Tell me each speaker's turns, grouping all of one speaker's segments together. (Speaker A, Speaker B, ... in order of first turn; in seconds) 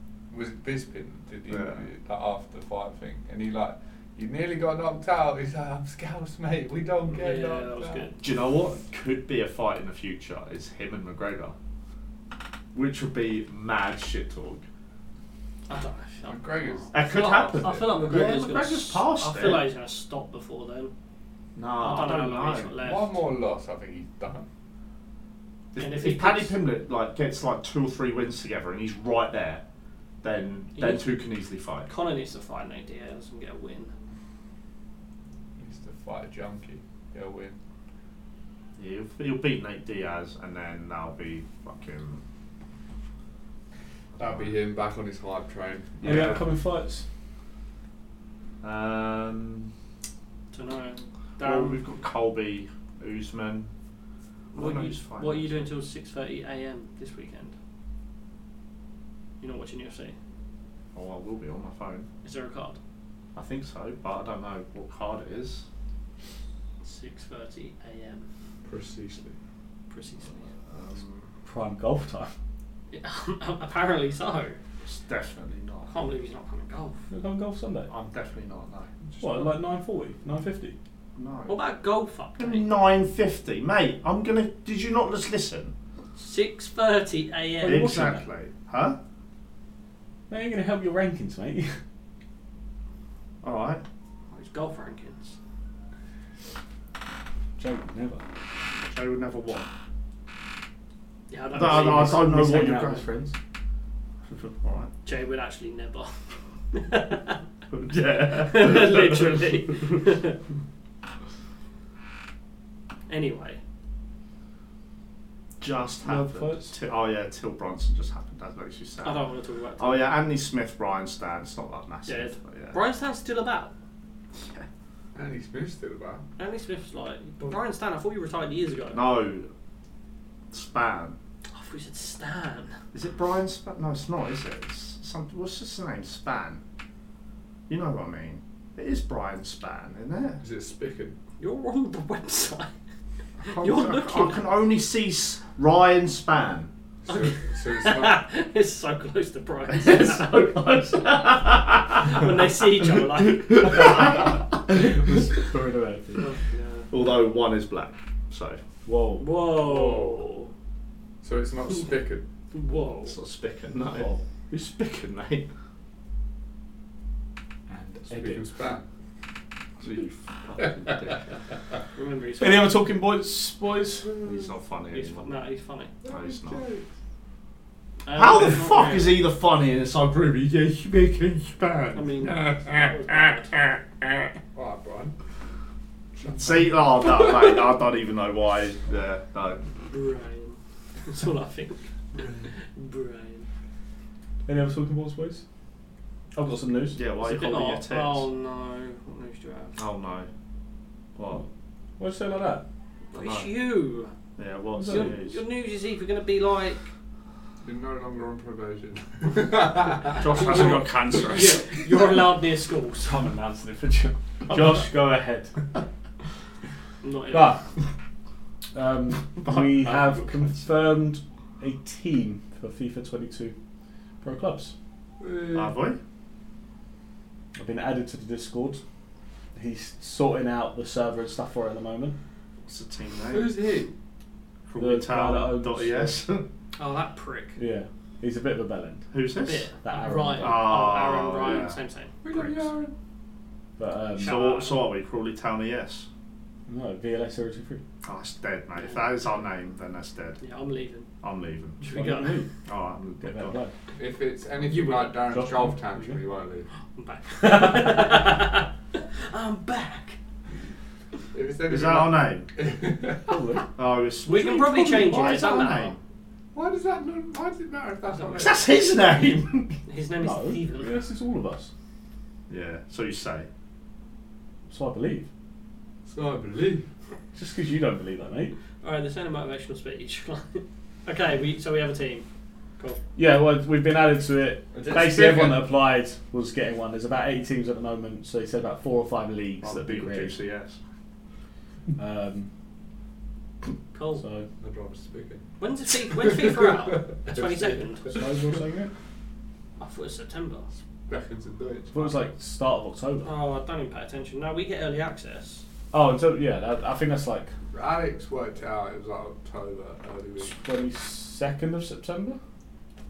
Speaker A: 0.3-8.1, 16.2-18.0, 22.8-24.5, 35.6-37.6, 44.2-46.4, 68.6-69.3, 79.0-79.5, 125.1-126.2, 140.4-141.2, 147.0-148.2, 159.6-160.2, 161.2-162.2, 168.1-168.8, 176.0-176.8, 184.5-185.1, 186.2-187.6, 207.6-210.2, 225.2-225.7, 233.3-233.9, 242.2-242.9, 253.9-256.7, 261.3-263.3, 266.5-268.6, 276.1-276.9, 284.7-285.6, 294.6-295.5, 296.2-297.3, 301.1-302.2, 307.7-310.6
Speaker B: 1.5-1.8, 8.2-11.5, 12.7-14.6, 16.9-19.6, 21.6-22.8, 25.7-29.6, 30.2-31.9, 38.8-42.2, 44.1-44.5, 46.0-46.5, 48.6-49.7, 51.4-53.7, 54.5-55.7, 60.9-62.1, 63.3-65.7, 70.7-71.3, 74.8-75.9, 77.9-78.9, 81.2-81.6, 82.4-85.7, 87.6-89.0, 93.4-93.8, 98.9-99.7, 101.5-103.1, 104.3-104.9, 107.7-109.4, 115.6-119.2, 119.8-122.8, 124.3-124.7, 128.9-129.5, 130.5-131.2, 132.9-136.6, 137.7-140.4, 143.4-146.7, 149.7-155.0, 156.9-158.6, 163.1-165.5, 169.8-171.2, 174.2-175.3, 176.0-176.6, 178.1-184.3, 186.3-189.6, 196.9-198.3, 199.8-200.3, 201.2-201.4, 203.1-203.5, 204.4-205.4, 210.1-211.7, 214.5-214.8, 219.4-220.2, 225.5-226.0, 232.7-233.6, 234.7-236.4, 239.1-239.7, 240.4-241.8, 242.3-242.7, 244.2-246.1, 248.0-250.4, 251.2-251.8, 252.6-253.6, 261.7-262.5, 263.8-266.0, 268.4-269.8, 272.5-273.5, 289.6-290.8
Speaker C: 7.1-8.2, 15.7-20.9, 21.8-23.2, 25.8-26.5, 30.8-31.1, 31.9-33.9, 50.5-51.8, 54.5-57.5, 59.4-60.1, 62.2-62.8, 66.8-68.2, 69.9-70.5, 72.9-74.5, 75.9-77.0, 81.5-82.7, 86.2-88.0, 94.3-95.3, 101.3-102.3, 105.0-106.1, 106.7-107.4, 108.4-110.4, 113.1-113.6, 119.0-120.1, 122.1-123.7, 126.4-129.0, 131.5-132.7, 141.4-142.7, 143.4-144.4, 147.1-154.4, 156.2-156.9, 159.2-160.5, 162.5-163.2, 171.9-172.7, 174.9-175.9, 178.0-179.2, 181.9-183.5, 189.9-191.8, 192.5-193.4, 197.2-199.8, 203.1-204.1, 204.9-206.8, 210.1-213.4, 217.0-217.6, 236.8-237.6, 239.4-242.1, 244.2-244.8, 248.8-249.1, 250.4-251.1, 251.8-252.4, 254.6-255.5, 256.9-260.2, 264.3-266.0, 268.1-268.5, 269.9-270.9, 278.8-282.2, 293.9-294.2, 295.6-298.1, 299.8-300.7, 303.2-305.6
Speaker D: 46.0-47.0, 71.4-72.3, 77.1-77.9, 79.2-80.7, 87.6-88.2, 90.3-91.8, 97.6-98.2, 101.5-103.3, 116.0-116.7, 154.7-156.3, 158.8-159.2, 167.7-168.4, 172.4-174.1, 194.4-195.4, 196.3-197.0, 202.0-202.6, 204.7-205.1, 213.1-215.5, 217.3-217.6, 218.7-223.5, 224.2-224.7, 227.6-228.8, 229.5-232.1, 234.8-236.2, 237.6-239.0, 239.8-240.8, 243.8-244.4, 246.7-247.8, 251.8-252.5, 253.2-253.7, 255.3-256.2, 263.3-263.6, 270.2-271.7, 274.7-275.3, 277.3-278.5, 283.1-290.4, 291.9-292.5, 294.2-294.4, 297.6-298.9, 301.9-303.3, 305.9-307.5, 310.4-312.4